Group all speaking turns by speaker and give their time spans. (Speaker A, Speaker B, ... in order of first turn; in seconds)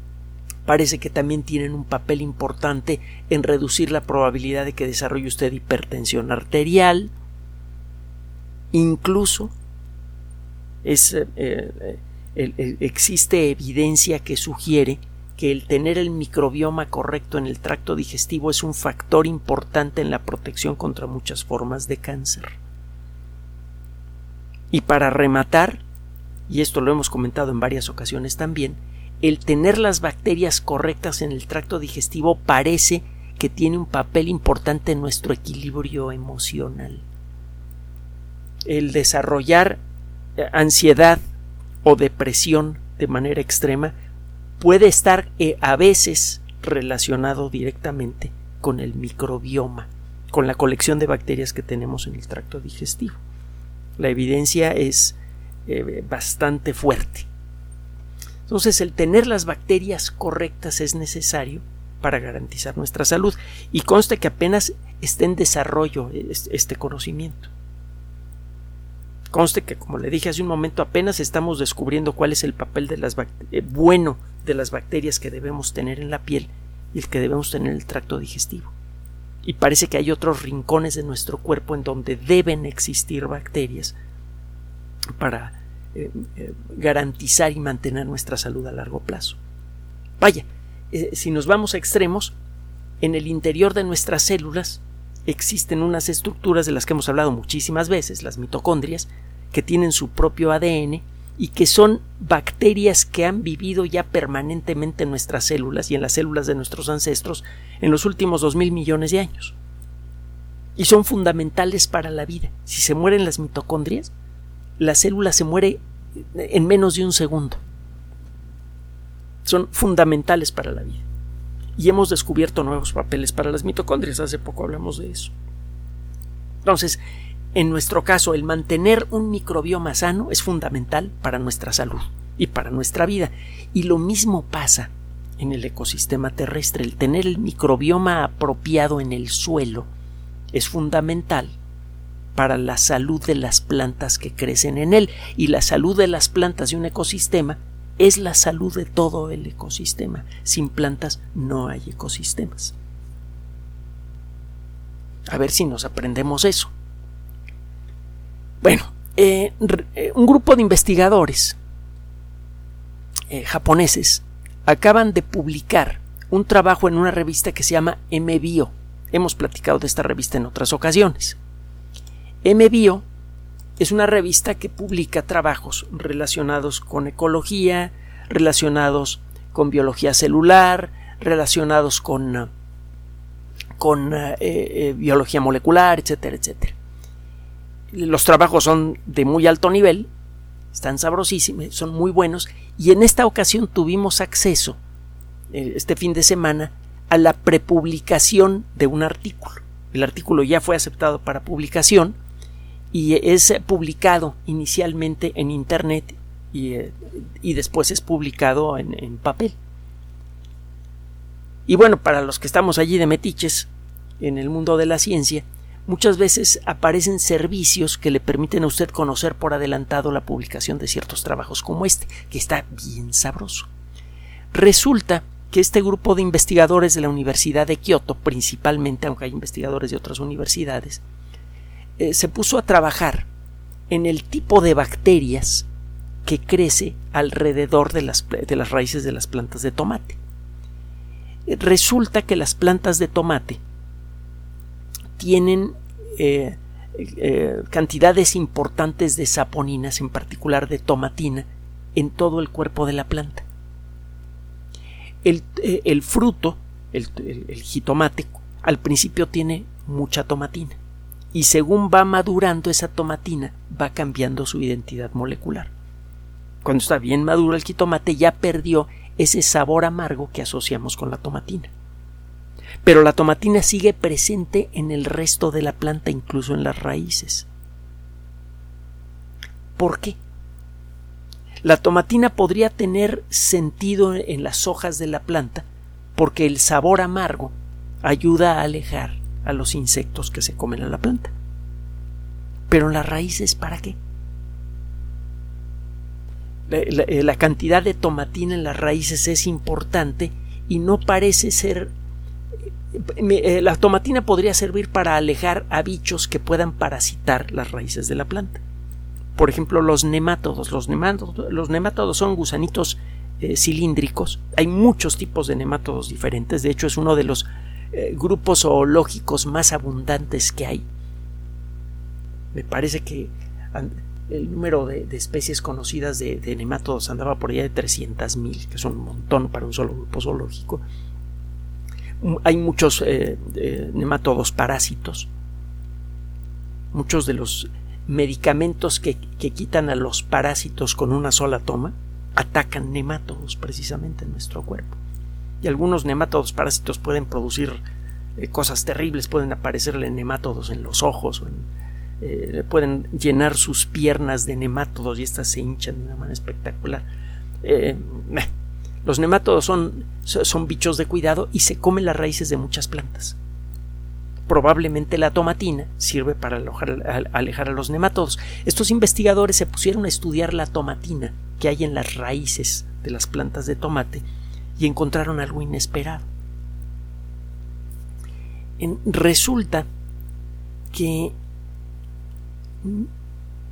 Speaker A: 0.7-7.1, 8.7-9.5, 10.8-22.5, 24.7-25.8, 26.5-37.0, 38.6-39.8, 40.4-41.2, 41.8-43.9, 44.6-53.2, 54.0-57.3, 58.5-67.5, 69.3-78.7, 79.4-84.0, 85.2-89.4, 90.2-92.3, 93.0-109.5, 110.8-114.1, 114.8-115.8, 116.3-117.6, 119.5-121.0, 121.8-125.3, 126.6-127.0, 127.5-139.9, 140.5-141.5, 142.3-152.7, 155.3-156.7, 158.6-161.6, 163.3-171.4, 172.4-173.0, 173.8-182.5, 183.8-186.7, 187.9-190.1, 190.7-194.8, 195.5-202.2, 202.9-209.5, 211.7-213.7, 214.2-223.7, 224.5-231.0, 232.0-233.3, 233.9-235.7, 236.2-240.2, 241.5-243.6, 245.2-253.4, 255.2-260.8, 261.3-265.7, 266.6-271.7, 272.8-277.5, 279.8-280.2, 281.6-285.6, 286.1-291.3, 292.7-294.0, 296.7-301.9, 302.9-308.6, 309.4-320.8, 322.5-330.8, 332.2-335.3, 336.9-345.0, 345.6-347.8, 348.4-351.6, 352.2-357.0, 357.6-358.5, 359.0-363.4, 364.5-374.2, 374.8-376.2, 378.8-379.9, 380.9-381.3, 382.8-383.1